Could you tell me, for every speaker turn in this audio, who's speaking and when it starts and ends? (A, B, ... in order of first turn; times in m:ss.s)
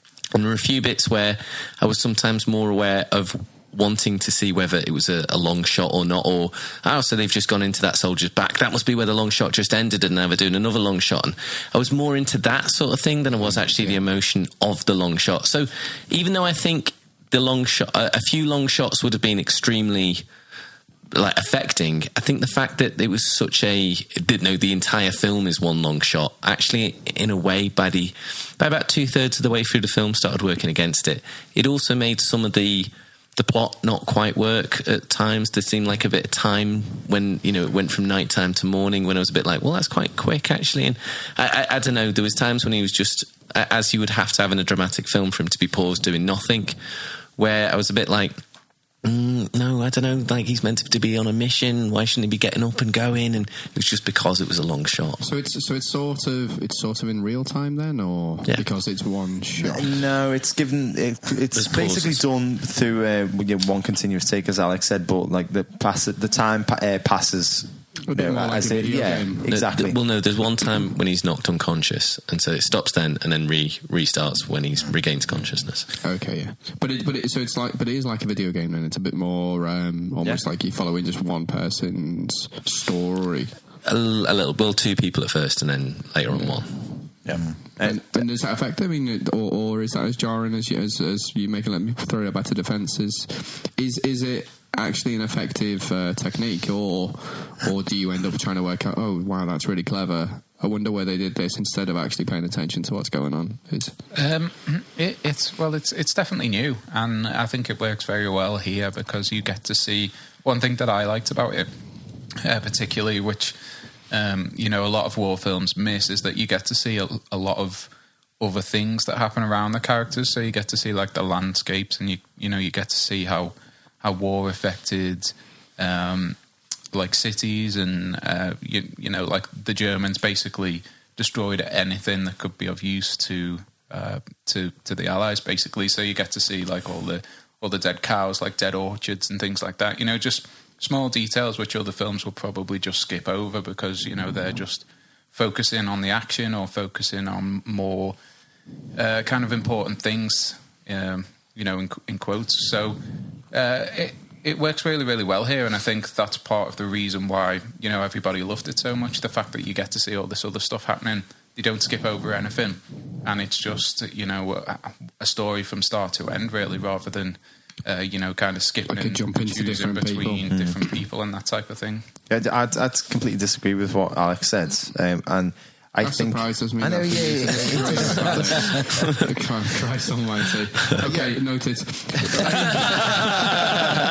0:00.3-0:20.2 A
0:21.1-0:46.8 A
0:47.4-0:48.4 A
0:49.0-0:55.2 A
0:55.2-0:59.9 B
0:59.6-1:10.0 C
1:01.5-1:02.2 A
1:08.1-1:09.5 B
1:09.5-1:15.9 A
1:16.0-1:23.5 B
1:23.8-1:27.0 A
1:26.3-1:26.6 B
1:27.2-1:28.2 C
1:27.8-1:43.9 B
1:44.1-1:51.7 D
1:52.4-1:53.5 D
1:54.1-2:06.4 D
2:06.9-2:28.2 D
2:28.9-2:33.0 D
2:33.5-2:52.1 D
2:48.8-2:50.5 B
2:52.3-2:58.8 C
2:56.0-3:03.8 B
3:01.0-3:01.4 C
3:02.2-3:03.8 C